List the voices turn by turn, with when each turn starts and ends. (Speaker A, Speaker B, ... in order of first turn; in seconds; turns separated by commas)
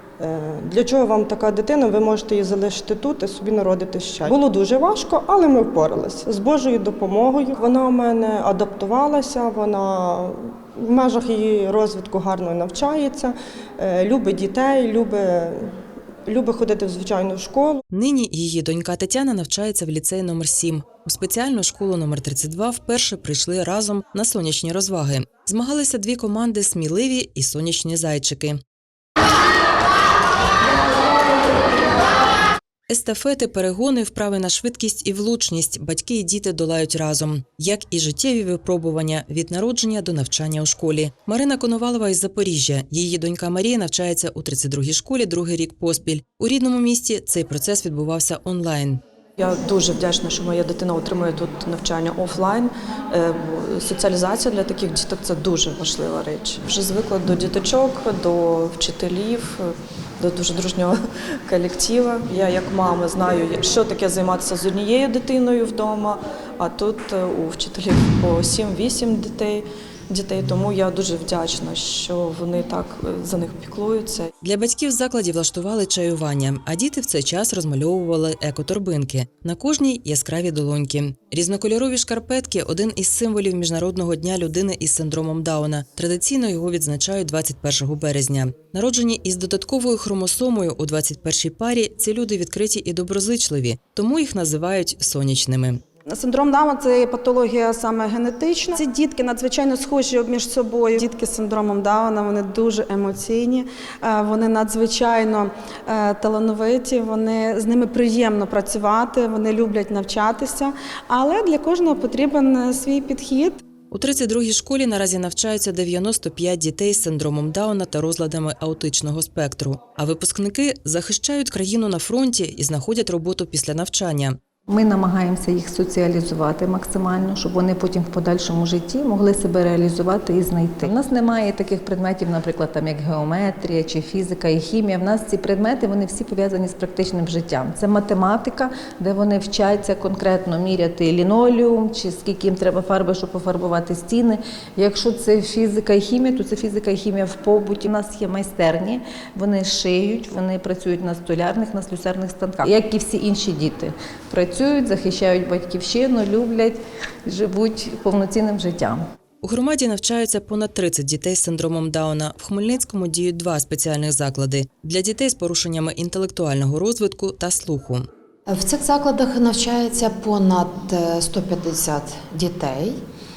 Speaker A: 0.2-15.7, Speaker A: 16.3-17.8, Speaker B: 17.9-28.6, Speaker B: 32.9-49.0, Speaker C: 49.4-61.0, Speaker C: 61.5-74.3, Speaker B: 74.4-95.8, Speaker D: 96.1-113.6, Speaker B: 113.9-124.4, Speaker E: 124.7-159.0, Speaker B: 159.4-168.0, Speaker F: 168.5-173.0